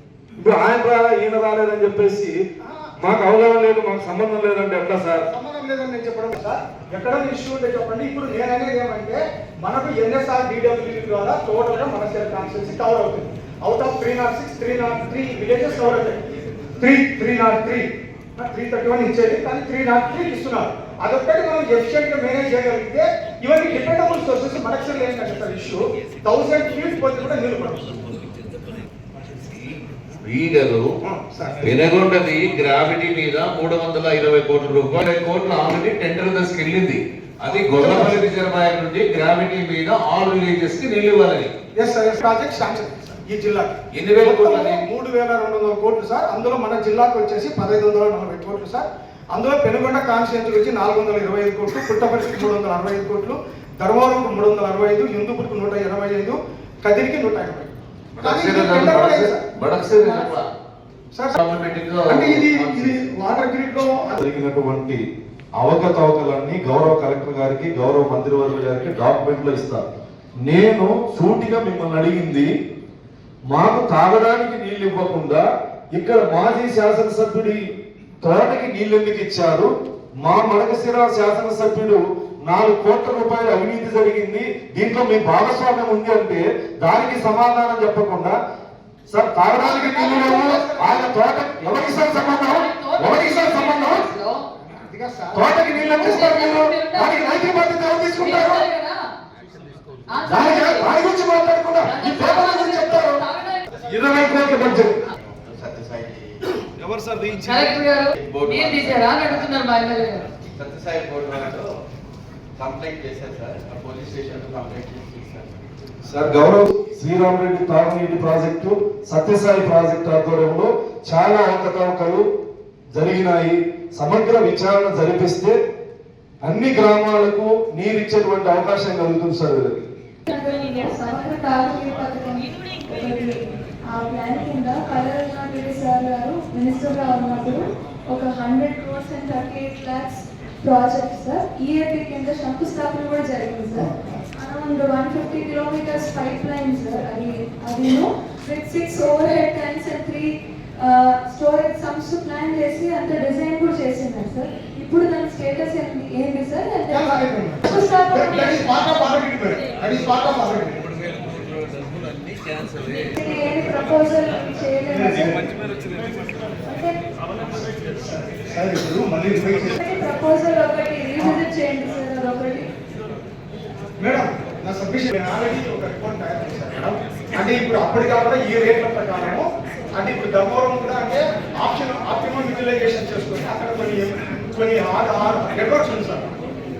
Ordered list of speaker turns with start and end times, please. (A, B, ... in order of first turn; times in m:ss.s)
0:00.4-0:02.3 A
0:02.6-0:02.9 B
0:03.0-0:05.3 A
0:05.3-0:16.2 B
0:16.8-0:28.2 B
0:30.2-0:30.9 C
0:31.0-0:31.7 B
0:31.6-0:41.5 C
0:37.5-0:38.2 B
0:41.8-0:59.4 B
0:44.0-0:44.8 C
0:58.2-1:00.5 C
1:01.1-1:01.4 B
1:01.4-1:03.0 C
1:02.1-1:04.2 B
1:04.2-1:05.0 A
1:05.6-1:09.9 A
1:10.5-1:12.5 A
1:13.5-1:15.4 A
1:16.0-1:17.6 A
1:18.2-1:19.7 A
1:20.2-1:28.4 A
1:29.1-1:34.1 A
1:29.6-1:31.1 B
1:32.2-1:34.4 D
1:34.8-1:35.5 B
1:35.3-1:38.7 A
1:35.9-1:39.0 D
1:40.1-1:41.0 D
1:40.3-1:43.2 A
1:41.8-1:43.7 D
1:43.8-1:45.0 A
1:45.1-1:46.4 E
1:46.8-1:47.8 A
1:47.4-1:50.2 D
1:48.2-1:51.8 E
1:52.6-1:55.6 E
1:56.1-2:02.2 A
2:03.0-2:05.6 A
2:06.4-2:09.8 A
2:10.3-2:38.7 F
2:36.9-2:40.9 B
2:43.1-2:45.4 F
2:44.9-2:45.4 B
2:46.6-2:47.0 F
2:47.5-2:49.8 B
2:49.8-2:52.7 F
2:54.0-3:06.4 B